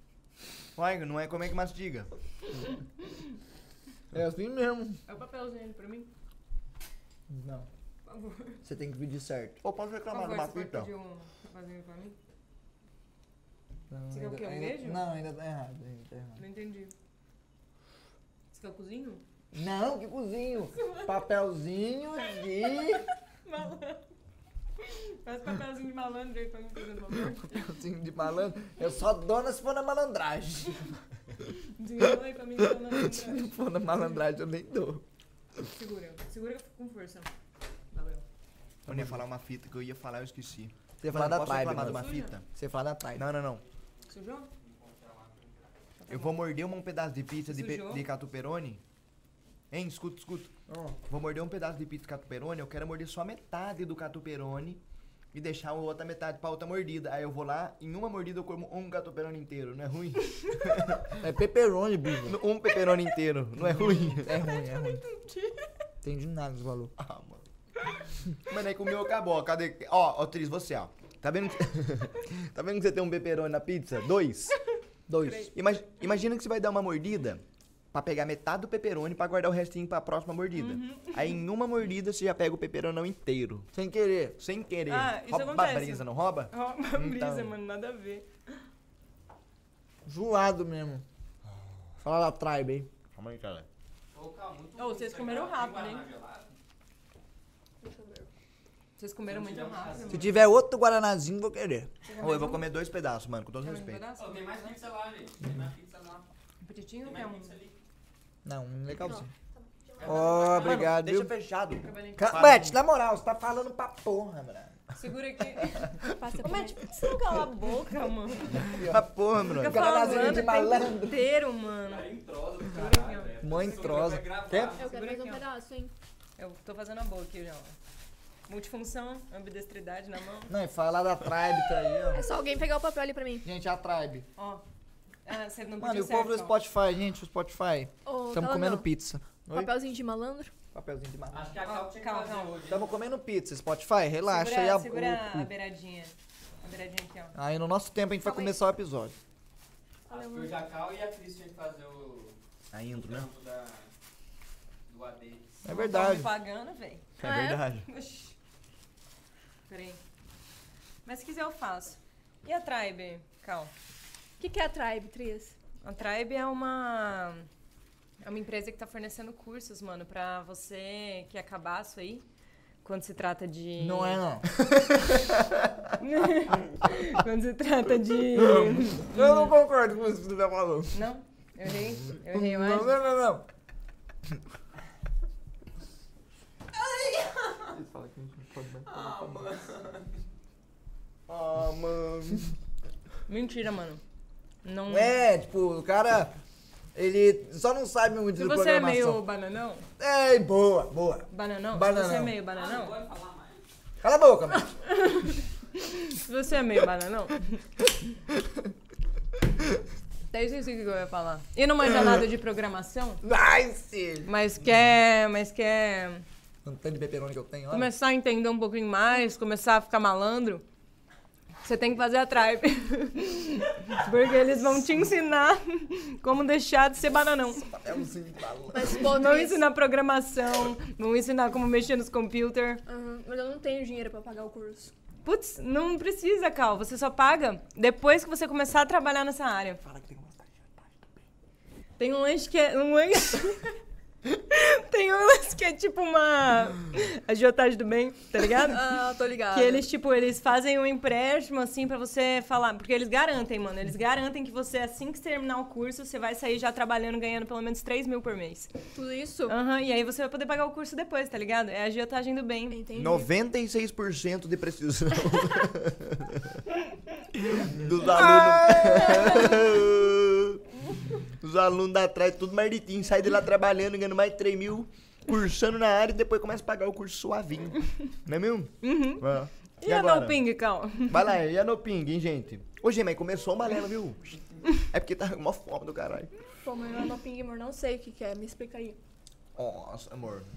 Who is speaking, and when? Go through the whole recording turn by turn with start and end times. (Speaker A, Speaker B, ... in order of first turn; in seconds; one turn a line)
Speaker A: 0.8-2.1
Speaker B: 4.1-5.0
Speaker C: 5.1-6.1
Speaker B: 7.3-7.7
Speaker C: 8.1-8.6
Speaker B: 8.6-9.6
Speaker A: 9.6-10.9
Speaker C: 10.1-12.2
Speaker B: 13.9-16.4
Speaker C: 14.1-15.0
Speaker C: 16.4-16.9
Speaker C: 18.5-19.2
Speaker B: 19.5-23.0
Speaker C: 20.7-21.1
Speaker C: 23.4-24.0
Speaker C: 24.8-27.7
Speaker B: 27.3-30.9
Speaker C: 31.5-33.5
Speaker B: 32.0-35.0
Speaker C: 35.7-37.3
Speaker C: 37.9-38.2
Speaker B: 38.9-39.2
Speaker A: 38.9-42.4
Speaker B: 41.0-43.2
Speaker C: 41.8-42.4
Speaker A: 43.1-43.6
Speaker D: 43.6-45.8
Speaker C: 44.1-44.5
Speaker C: 46.0-46.4
Speaker A: 46.1-48.8
Speaker C: 47.5-48.0
Speaker A: 49.7-50.5
Speaker B: 50.7-51.0
Speaker A: 51.1-54.8
Speaker A: 55.3-61.1
Speaker B: 61.2-62.4
Speaker A: 62.2-64.3
Speaker B: 63.6-65.0
Speaker C: 65.0-65.7
Speaker B: 66.0-66.9
Speaker A: 67.0-67.4
Speaker A: 68.4-74.6
Speaker B: 75.1-75.5
Speaker C: 75.2-75.6
Speaker A: 75.5-83.7
Speaker C: 80.5-81.4
Speaker B: 83.7-84.4
Speaker A: 84.4-87.5
Speaker C: 84.9-88.2
Speaker B: 90.0-91.0
Speaker B: 92.0-92.9
Speaker A: 93.1-93.7
Speaker D: 94.1-96.5
Speaker C: 94.8-96.0
Speaker E: 97.8-98.3
Speaker C: 99.0-100.3
Speaker D: 99.2-100.4
Speaker B: 100.1-101.9
Speaker C: 102.0-102.7
Speaker A: 102.2-104.0
Speaker C: 103.6-104.7
Speaker D: 104.2-106.2
Speaker C: 106.6-107.5
Speaker D: 107.0-107.8
Speaker B: 108.4-109.3
Speaker E: 109.0-110.6
Speaker D: 110.0-110.8
Speaker B: 110.0-111.3
Speaker A: 110.6-112.8
Speaker C: 111.8-112.5
Speaker B: 112.2-114.8
Speaker C: 114.9-118.7
Speaker E: 116.1-117.2
Speaker B: 118.4-121.2
Speaker A: 118.8-119.9
Speaker C: 119.5-122.1
Speaker D: 121.8-124.9
Speaker C: 122.7-124.2
Speaker B: 123.4-124.7
Speaker E: 124.7-125.9
Speaker C: 124.8-125.4
Speaker C: 126.4-127.7
Speaker C: 128.5-130.5
Speaker B: 130.5-132.2
Speaker E: 132.1-133.4
Speaker B: 133.4-134.2
Speaker C: 134.3-134.6
Speaker C: 135.2-136.6
Speaker B: 135.8-139.7
Speaker E: 138.1-138.9
Speaker E: 139.5-140.5
Speaker B: 140.7-141.5
Speaker D: 141.3-142.9
Speaker C: 141.6-142.6
Speaker B: 142.7-145.5
Speaker C: 144.3-147.3
Speaker B: 147.3-149.2
Speaker E: 148.2-148.6
Speaker E: 150.1-150.6
Speaker D: 150.1-152.3
Speaker A: 152.7-153.3
Speaker D: 152.9-153.9
Speaker D: 154.9-155.6
Speaker B: 155.6-156.3
Speaker C: 155.7-157.1
Speaker A: 157.2-157.9
Speaker E: 157.2-157.6
Speaker C: 157.8-158.3
Speaker C: 159.7-160.0
Speaker C: 161.1-163.7
Speaker E: 164.4-165.5
Speaker C: 165.8-167.4
Speaker C: 168.2-172.2
Speaker C: 172.8-174.2
Speaker B: 173.8-174.5
Speaker A: 174.7-175.3
Speaker C: 176.0-179.5
Speaker B: 178.3-181.0
Speaker C: 180.9-182.9
Speaker B: 182.2-183.4
Speaker D: 186.8-187.7
Speaker B: 187.7-189.3
Speaker D: 188.8-190.1
Speaker A: 191.3-192.5
Speaker C: 193.3-194.0
Speaker C: 194.6-195.2
Speaker B: 194.9-196.3
Speaker B: 196.9-199.2
Speaker C: 198.4-199.9
Speaker B: 200.0-202.3
Speaker C: 201.3-202.9
Speaker D: 202.5-203.6
Speaker B: 204.0-204.7
Speaker C: 204.8-207.6
Speaker C: 210.3-213.2
Speaker B: 213.2-214.3
Speaker C: 214.2-216.2
Speaker B: 216.6-217.9
Speaker C: 217.7-220.6
Speaker C: 221.6-227.7
Speaker B: 227.5-229.0
Speaker E: 228.7-229.6
Speaker C: 228.9-232.8
Speaker E: 232.9-234.9
Speaker C: 235.2-239.8
Speaker B: 239.8-240.4
Speaker C: 242.0-243.7
Speaker C: 244.3-249.0
Speaker E: 248.6-249.8
Speaker C: 249.5-258.7
Speaker E: 258.9-259.6
Speaker C: 259.5-262.8
Speaker E: 262.7-263.3
Speaker A: 262.9-266.6
Speaker A: 267.4-270.6
Speaker E: 268.3-269.4
Speaker A: 271.4-280.4
Speaker C: 278.8-279.2
Speaker C: 279.8-281.3
Speaker A: 281.1-286.3
Speaker E: 286.6-289.0
Speaker A: 289.6-290.5